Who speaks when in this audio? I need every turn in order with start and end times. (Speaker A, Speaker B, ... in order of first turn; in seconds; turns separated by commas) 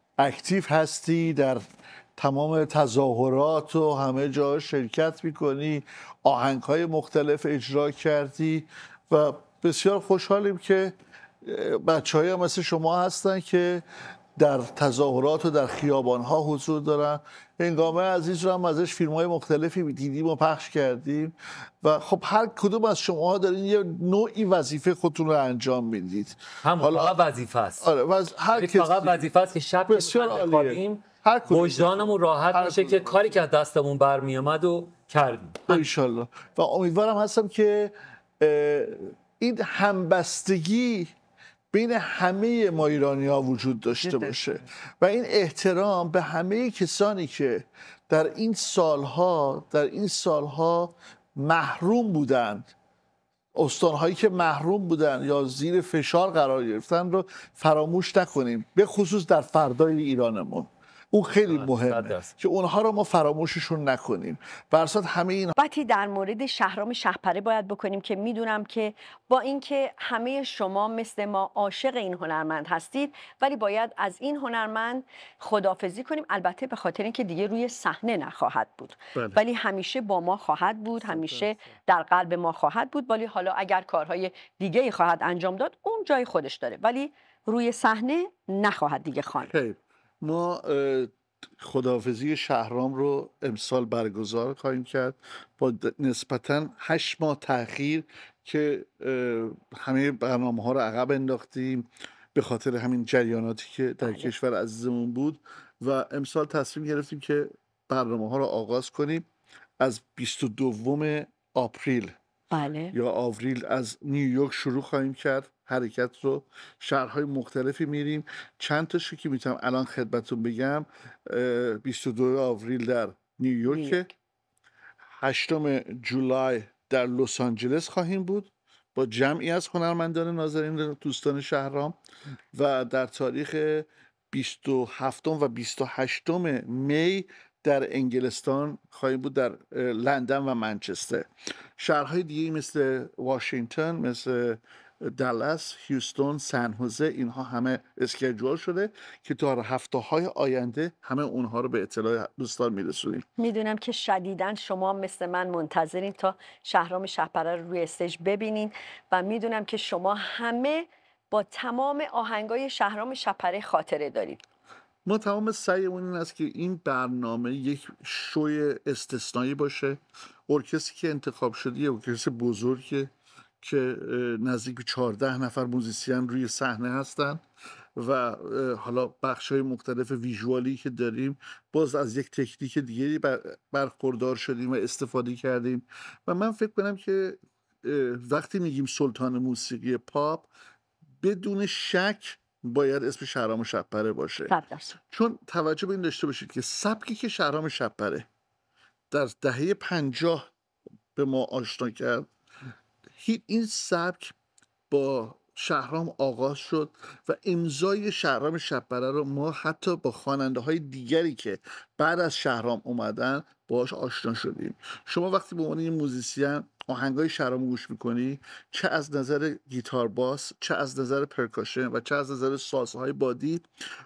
Speaker A: 0.2-1.6, Speaker A: 2.2-13.8, Speaker A: 14.4-27.2, Speaker B: 26.6-27.9, Speaker A: 27.8-29.3, Speaker B: 28.5-35.8, Speaker A: 29.9-33.3, Speaker A: 35.7-41.1, Speaker A: 41.7-52.7, Speaker A: 53.5-65.5, Speaker B: 61.5-62.3, Speaker C: 65.5-89.5, Speaker A: 79.1-79.4, Speaker A: 81.0-81.5, Speaker A: 89.4-109.2, Speaker C: 104.0-104.3, Speaker A: 109.8-112.1, Speaker C: 112.5-113.0, Speaker A: 112.9-124.1, Speaker C: 123.7-124.1, Speaker A: 125.2-131.9, Speaker A: 132.5-153.2, Speaker C: 153.4-164.4, Speaker A: 165.1-173.1, Speaker A: 173.6-177.4, Speaker A: 178.0-190.5, Speaker A: 191.2-194.5, Speaker C: 194.5-195.0, Speaker A: 195.1-198.2, Speaker A: 199.1-200.5, Speaker A: 201.2-202.3, Speaker A: 203.2-204.3, Speaker A: 204.9-223.6